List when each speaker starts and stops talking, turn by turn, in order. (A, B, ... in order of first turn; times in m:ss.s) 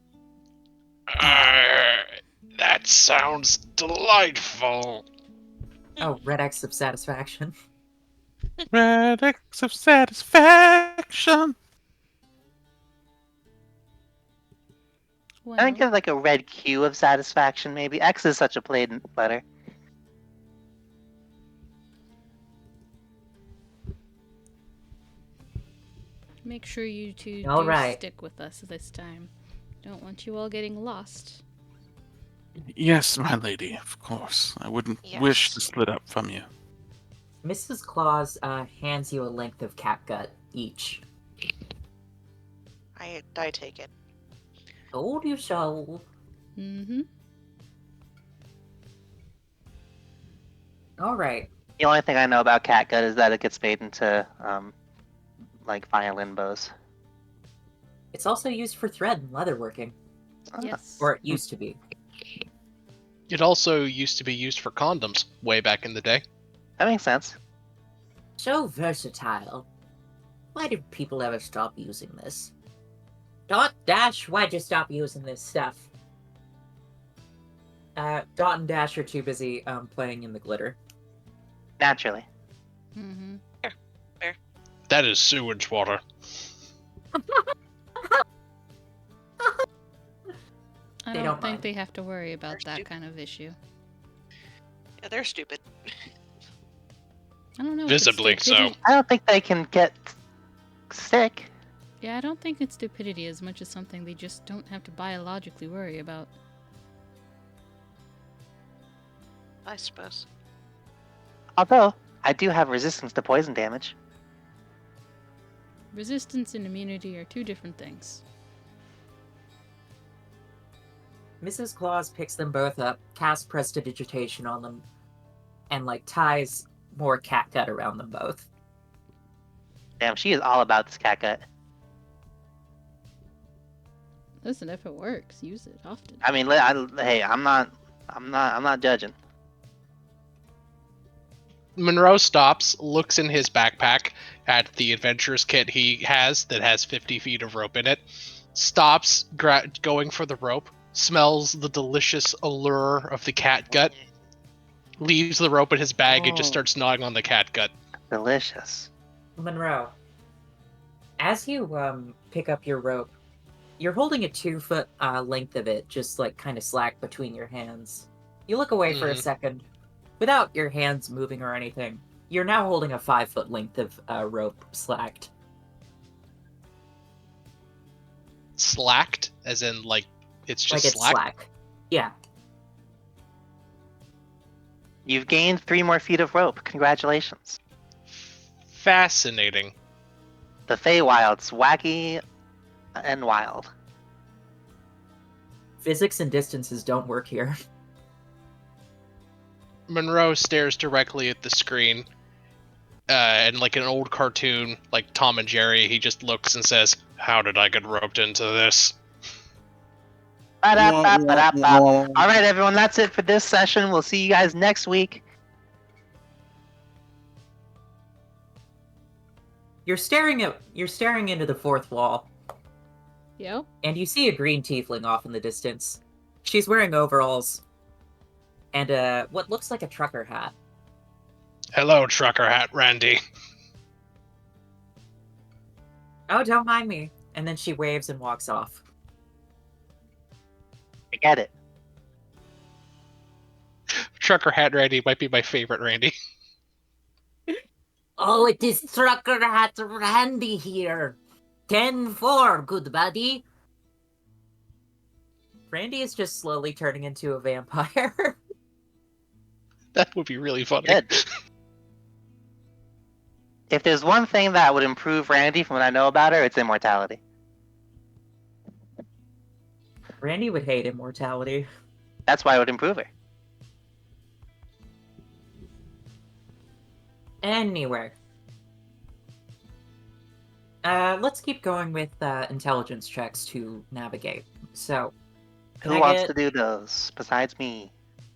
0:01.1-0:02.0 A
0:02.6-0:05.0 A
0:06.0-0:07.5 B
0:08.7-0:11.5 C
0:15.4-0:15.8 D
0:15.6-0:19.4 E
0:26.4-0:29.3 D
0:27.4-0:28.0 B
0:29.8-0:31.4 D
0:32.7-0:36.5 C
0:35.0-0:35.6 F
0:37.4-0:41.0 B
0:43.0-0:43.9 F
0:44.9-0:46.1 B
0:46.6-0:47.0 D
0:51.0-0:51.5 B
0:51.8-0:54.7 E
0:55.6-0:56.7 E
0:58.1-1:00.0 B
1:00.6-1:01.1 D
1:01.0-1:01.8 B
1:03.3-1:06.2 A
1:06.8-1:07.4 E
1:08.4-1:09.7 B
1:10.5-1:12.5 B
1:13.5-1:15.9 B
1:18.0-1:20.8 B
1:21.8-1:22.2 E
1:23.0-1:23.4 D
1:23.6-1:24.4 F
1:24.9-1:26.0 A
1:31.0-1:33.6 D
1:31.1-1:31.6 B
1:32.5-1:32.8 F
1:35.0-1:35.6 F
1:37.6-1:38.8 D
1:37.9-1:38.7 A
1:38.8-1:40.2 E
1:40.9-1:41.5 E
1:42.0-1:46.3 D
1:49.6-1:50.2 F
1:51.6-1:54.0 E
1:55.9-1:58.2 D
2:01.4-2:04.8 B
2:05.7-2:08.4 B
2:10.0-2:11.4 E
2:14.4-2:16.2 D
2:16.2-2:19.1 E
2:21.8-2:28.0 A
2:28.5-2:33.9 A
2:35.0-2:37.7 A
2:36.1-2:36.4 B
2:38.1-2:38.9 E
2:39.4-2:39.9 B
2:41.2-2:43.1 B
2:43.8-2:49.6 B
2:48.9-2:49.2 A
2:50.2-2:55.3 B
2:58.6-3:01.2 A
3:00.7-3:02.1 B
3:05.0-3:07.6 E
3:08.7-3:09.7 A
3:10.7-3:12.2 E
3:13.0-3:13.7 E
3:15.8-3:17.6 B
3:19.9-3:22.0 A
3:23.1-3:28.9 A
3:30.6-3:35.2 E
3:30.8-3:32.3 C
3:39.8-3:42.3 B
3:43.4-3:43.6 D
3:43.8-3:47.6 B
3:48.7-3:50.5 B
3:51.7-3:53.2 A
3:56.3-3:58.8 B
4:01.1-4:01.5 E
4:04.2-4:06.1 A
4:08.2-4:11.2 B
4:11.7-4:13.4 B
4:15.7-4:18.4 B
4:20.0-4:21.2 A
4:23.7-4:27.2 E
4:30.2-4:31.7 B
4:32.3-4:33.1 E
4:37.4-4:38.1 B
4:40.8-4:45.1 B
4:45.8-4:47.9 E
4:45.8-4:46.3 B